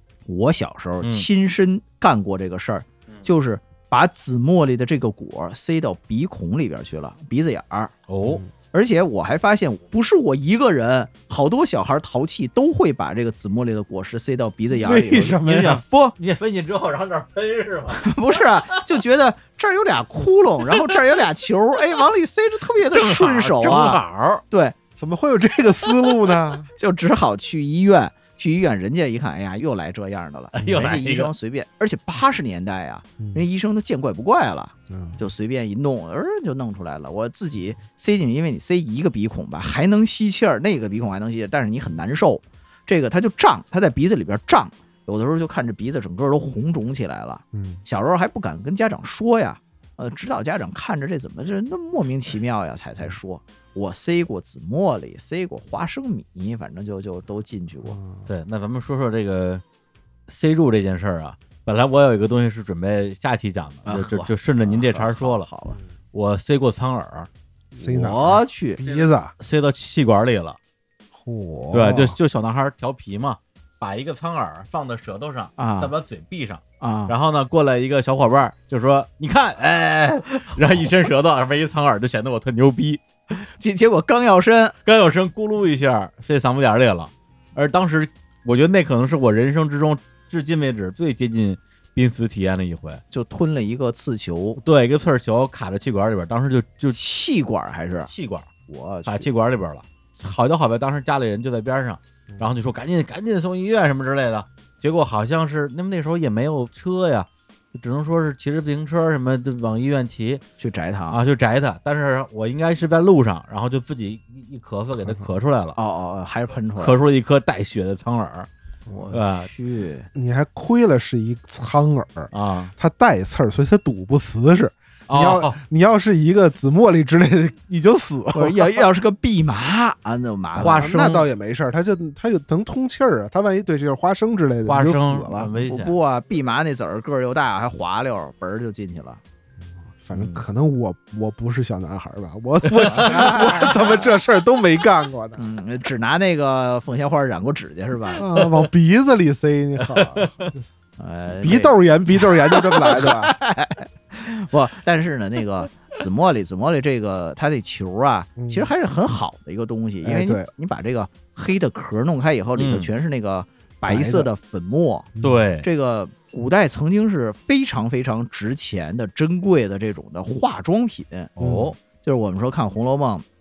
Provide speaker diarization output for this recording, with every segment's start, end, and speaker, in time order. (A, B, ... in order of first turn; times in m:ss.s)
0:00.3-0:07.9 A
0:01.0-0:01.3 B
0:08.1-0:08.4 B
0:08.7-0:16.2 A
0:14.8-0:15.8 C
0:16.2-0:18.9 B
0:17.9-0:24.8 A
0:20.7-0:21.2 B
0:22.9-0:24.4 B
0:25.0-0:26.7 C
0:26.8-0:58.0 A
0:30.6-0:31.3 B
0:34.9-0:35.2 C
0:47.5-0:47.8 C
0:57.9-0:58.3 C
0:58.2-0:59.6 B
1:00.3-1:05.5 B
1:03.8-1:05.8 A
1:06.1-1:07.3 B
1:07.7-1:09.3 C
1:07.8-1:08.8 A
1:08.8-1:10.6 B
1:11.1-1:12.2 C
1:11.7-1:23.0 B
1:15.6-1:15.9 A
1:16.8-1:17.1 A
1:23.3-1:24.8 A
1:24.8-1:33.0 B
1:33.1-1:34.6 A
1:34.6-1:37.0 B
1:36.9-1:38.1 A
1:38.1-1:38.5 B
1:38.7-1:39.3 A
1:39.0-1:50.4 B
1:50.6-1:51.2 A
1:51.1-1:55.8 B
1:55.0-1:55.3 C
1:55.7-1:57.0 A
1:56.8-1:58.5 B
1:58.9-1:59.1 C
1:58.9-2:00.1 A
1:59.1-1:59.5 B
2:00.1-2:08.8 C
2:02.3-2:02.7 B
2:05.1-2:05.6 B
2:08.3-2:10.9 A
2:10.6-2:11.3 B
2:10.6-2:15.5 C
2:14.6-2:16.0 B
2:15.5-2:19.2 A
2:19.7-2:25.4 C
2:20.1-2:20.4 B
2:22.7-2:23.6 B
2:22.9-2:24.1 A
2:25.4-2:28.2 A
2:28.2-2:30.6 C
2:29.8-2:30.5 B
2:31.0-2:45.1 A
2:31.3-2:33.3 C
2:38.4-2:38.7 C
2:40.0-2:40.5 C
2:42.6-2:42.9 B
2:43.8-2:44.3 C
2:45.2-2:45.4 C
2:45.2-2:45.7 B
2:45.6-2:51.3 A
2:51.4-2:51.8 B
2:51.4-2:51.7 C
2:52.0-2:53.2 A